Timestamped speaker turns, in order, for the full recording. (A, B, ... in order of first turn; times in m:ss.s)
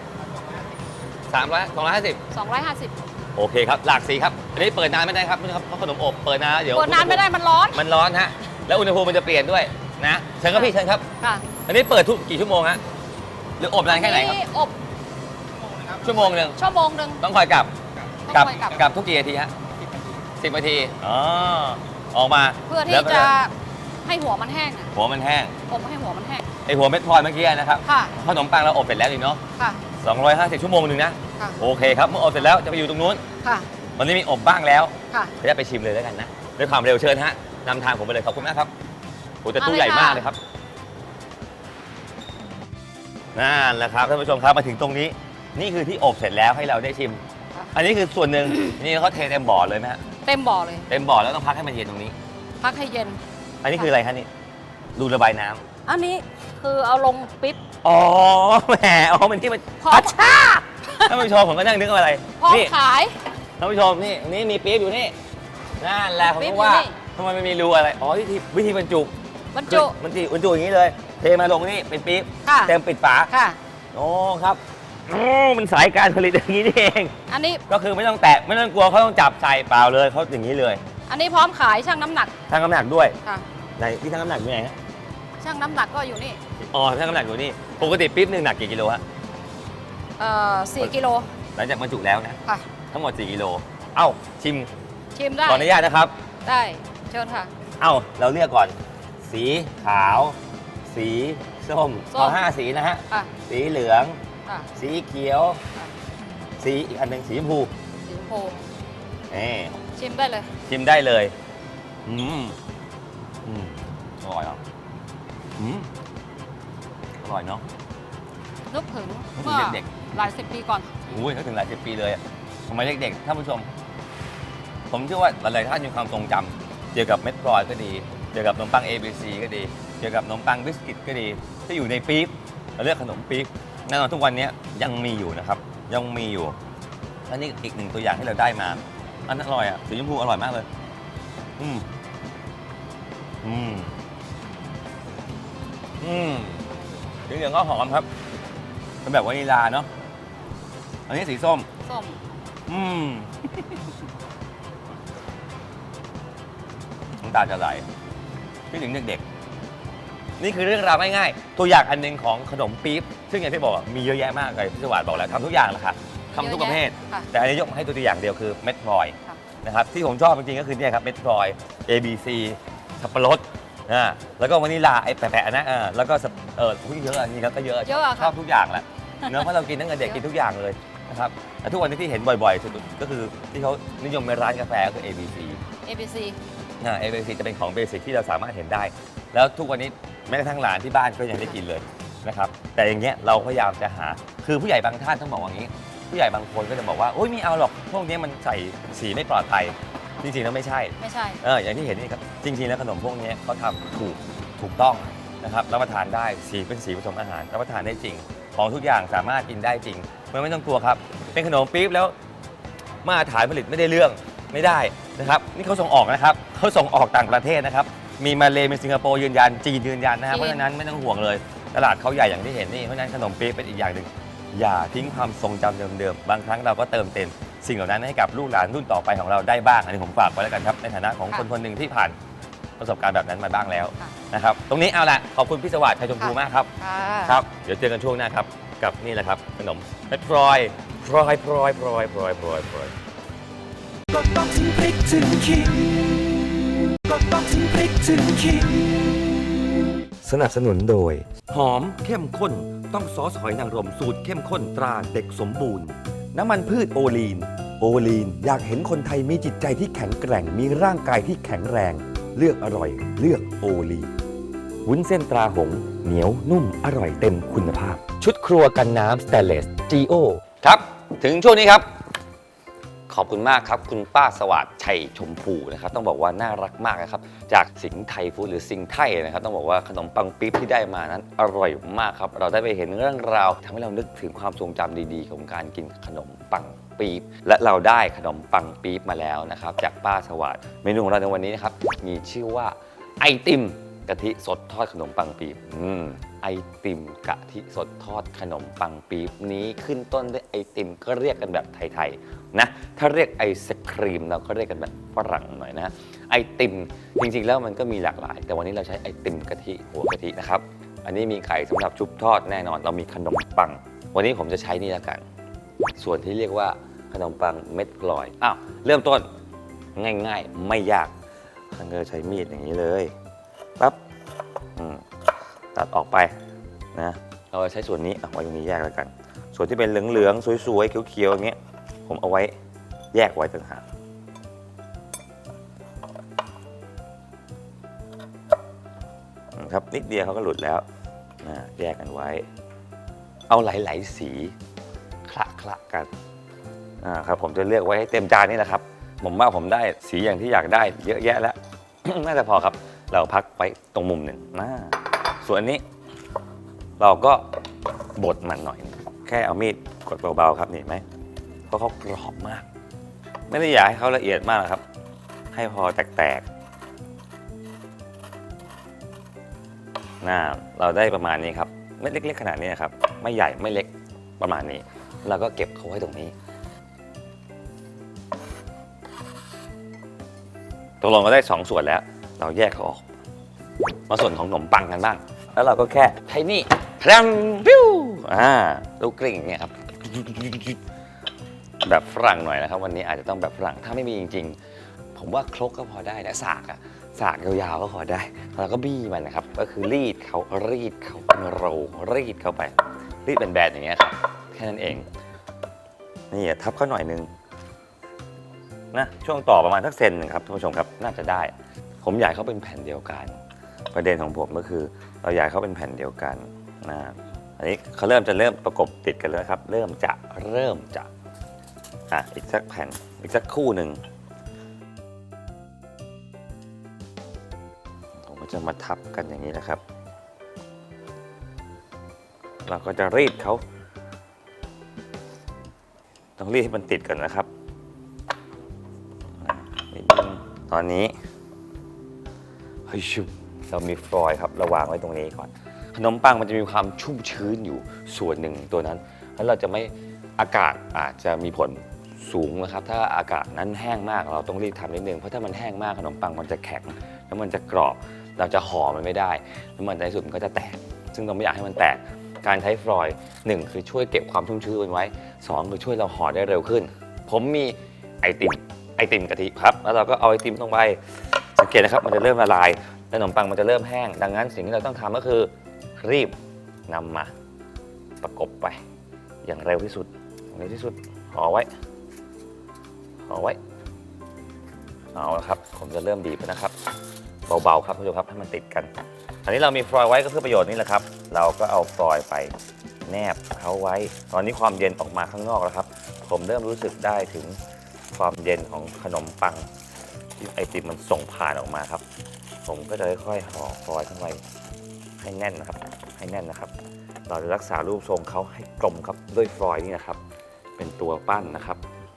0:01.3-0:02.2 A
0:02.3-0:03.0 B
0:03.4-0:11.0 A
0:06.7-0:07.8 B
0:10.5-0:11.4 B
0:11.7-0:12.8 A
0:13.6-0:14.4 A
0:13.9-0:14.8 B
0:16.0-0:16.6 A
0:16.6-0:17.2 B
0:17.2-0:17.7 A
0:18.3-0:18.8 B
0:18.3-0:19.5 A
0:20.4-0:23.3 A
0:22.7-0:23.5 B
0:24.1-0:24.9 B
0:24.9-0:25.5 A
0:25.7-0:26.5 B
0:26.7-0:29.4 A
0:27.8-0:28.1 B
0:30.0-0:33.2 A
0:34.0-0:38.7 A
0:39.4-0:40.4 A
0:39.6-0:40.3 B
0:43.4-0:47.2 A
0:47.7-0:50.0 A
0:50.2-0:50.9 B
0:50.9-0:52.2 A
0:52.6-0:53.2 B
0:53.6-0:54.3 A
0:55.0-0:55.6 A
0:55.9-0:57.6 B
0:57.8-1:02.7 A
0:59.8-1:01.1 B
1:02.4-1:03.2 B
1:03.6-1:05.2 A
1:05.8-1:09.1 A
1:06.2-1:07.0 B
1:09.5-1:10.0 B
1:09.7-1:13.3 A
1:12.5-1:12.7 B
1:13.3-1:13.6 B
1:13.9-1:17.1 A
1:17.3-1:17.6 B
1:17.7-1:20.8 A
1:21.1-1:22.3 B
1:22.5-1:23.2 A
1:23.8-1:24.8 A
1:25.4-1:26.4 B
1:26.7-1:29.0 A
1:30.2-1:31.3 B
1:31.6-1:32.4 A
1:32.9-1:34.7 A
1:35.2-1:35.7 B
1:35.5-1:36.1 A
1:36.4-1:37.5 B
1:37.8-1:44.2 A
1:42.1-1:42.4 B
1:44.8-1:45.6 A
1:46.6-1:47.7 A
1:48.1-1:48.6 B
1:49.3-1:49.8 A
1:50.0-1:50.5 B
1:50.7-1:51.3 A
1:52.1-1:52.6 A
1:53.4-1:54.6 A
1:55.6-1:55.9 A
1:57.2-1:57.6 A
1:58.7-2:01.0 B
1:59.4-1:59.9 A
2:01.1-2:03.7 A
2:04.9-2:16.6 A
2:17.3-2:20.7 A
2:21.6-2:21.9 A
2:23.4-2:24.0 A
2:26.0-2:26.7 A
2:27.3-2:28.1 A
2:29.0-2:29.9 A
2:31.1-2:31.7 A
2:31.8-2:32.2 B
2:32.7-2:33.7 A
2:37.2-2:37.9 A
2:38.7-2:39.2 A
2:40.4-3:05.6 A
2:46.3-2:47.3 B
2:57.9-2:58.3 B
3:05.8-3:06.4 B
3:06.8-3:32.1 A
3:21.0-3:21.4 B
3:33.0-3:52.2 A
3:40.3-3:40.6 B
3:52.8-3:56.7 A
3:56.9-3:57.4 B
3:57.3-4:03.0 A
4:04.3-4:06.0 C
4:07.1-4:08.6 B
4:07.1-4:09.0 C
4:10.2-4:24.1 A
4:24.8-4:31.9 A
4:33.1-5:15.2 A
5:16.0-5:19.3 A
5:20.0-5:21.1 A
5:21.7-5:23.1 A
5:24.8-5:25.0 A
5:25.7-5:26.3 A
5:27.0-5:31.6 A
5:32.1-5:32.6 A
5:33.1-5:33.8 A
5:39.6-5:40.8 A
5:41.4-5:42.5 A
5:43.5-5:44.6 A
5:45.3-5:46.1 A
5:47.0-5:55.8 A
5:57.0-5:57.5 A
5:58.2-6:01.0 A
6:01.7-6:02.7 A
6:03.5-6:04.8 A
6:05.5-6:06.5 A
6:10.2-6:16.3 A
6:21.0-6:23.0 A
6:24.1-6:30.8 A
6:31.8-6:34.6 A
6:35.2-6:45.1 A
6:46.3-6:47.3 A
6:48.9-6:53.4 A
6:53.9-7:01.1 A
7:02.1-7:04.0 A
7:08.2-7:09.8 A
7:12.7-7:13.6 A
7:16.4-7:17.5 A
7:19.4-7:21.2 A
7:22.9-7:56.4 A
7:56.9-7:57.3 A
7:58.2-7:58.8 A
7:59.4-8:01.7 A
8:03.3-8:03.6 A
8:05.1-8:06.7 A
8:07.5-8:08.9 A
8:09.4-8:12.5 A
8:13.1-8:17.6 A
8:18.1-8:19.7 A
8:20.4-8:22.0 A
8:22.6-8:24.4 A
8:25.2-8:26.7 A
8:27.3-8:30.2 A
8:30.8-8:31.8 A